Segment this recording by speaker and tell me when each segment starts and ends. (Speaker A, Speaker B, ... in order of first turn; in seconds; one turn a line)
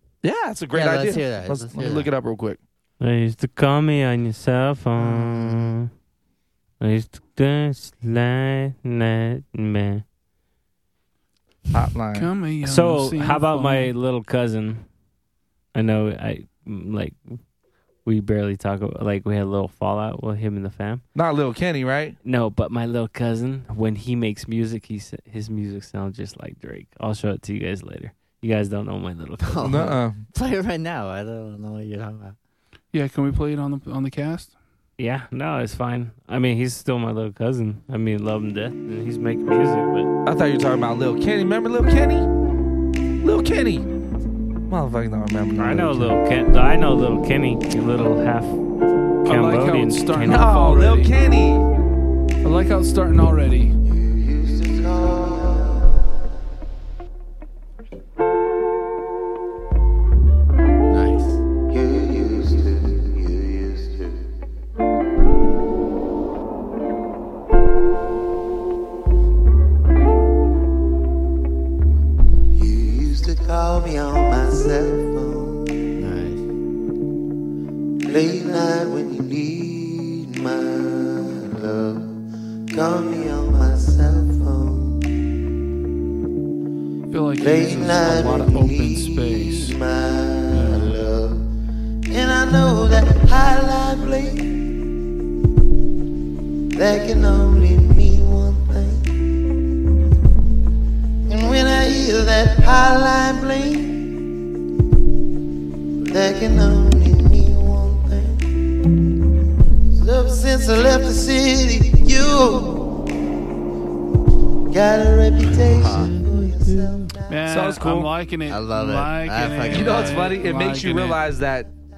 Speaker A: 0.2-2.6
Speaker B: 0.7-2.1
Speaker C: 3.0-5.9
Speaker B: 5.1-5.7
Speaker C: 6.8-10.0
Speaker A: 11.7-12.3
Speaker D: 12.1-13.9
Speaker C: 12.6-14.8
Speaker C: 15.7-17.4
Speaker C: 18.0-21.0
Speaker A: 21.1-22.1
Speaker C: 22.2-29.7
Speaker B: 29.4-32.4
Speaker A: 29.6-30.2
Speaker D: 32.9-34.5
Speaker C: 35.0-40.1
Speaker A: 40.2-42.3
Speaker A: 43.2-43.9
Speaker A: 44.7-46.1
Speaker C: 45.6-48.6
Speaker C: 49.2-50.5
Speaker D: 49.2-51.1
Speaker A: 50.2-51.6
Speaker D: 52.4-53.8
Speaker E: 53.8-56.1
Speaker B: 60.9-61.4
Speaker E: 61.7-64.2
Speaker E: 72.6-75.7
Speaker B: 76.0-76.5
Speaker E: 78.0-82.2
Speaker E: 82.7-85.0
Speaker D: 87.1-89.8
Speaker E: 87.4-91.5
Speaker D: 90.5-90.9
Speaker E: 92.1-94.6
Speaker E: 96.7-99.2
Speaker E: 101.3-104.1
Speaker E: 106.1-108.4
Speaker E: 109.9-112.9
Speaker E: 114.7-117.4
Speaker B: 115.7-116.2
Speaker D: 117.3-121.2
Speaker A: 117.5-118.1
Speaker B: 118.5-120.2
Speaker A: 119.7-121.7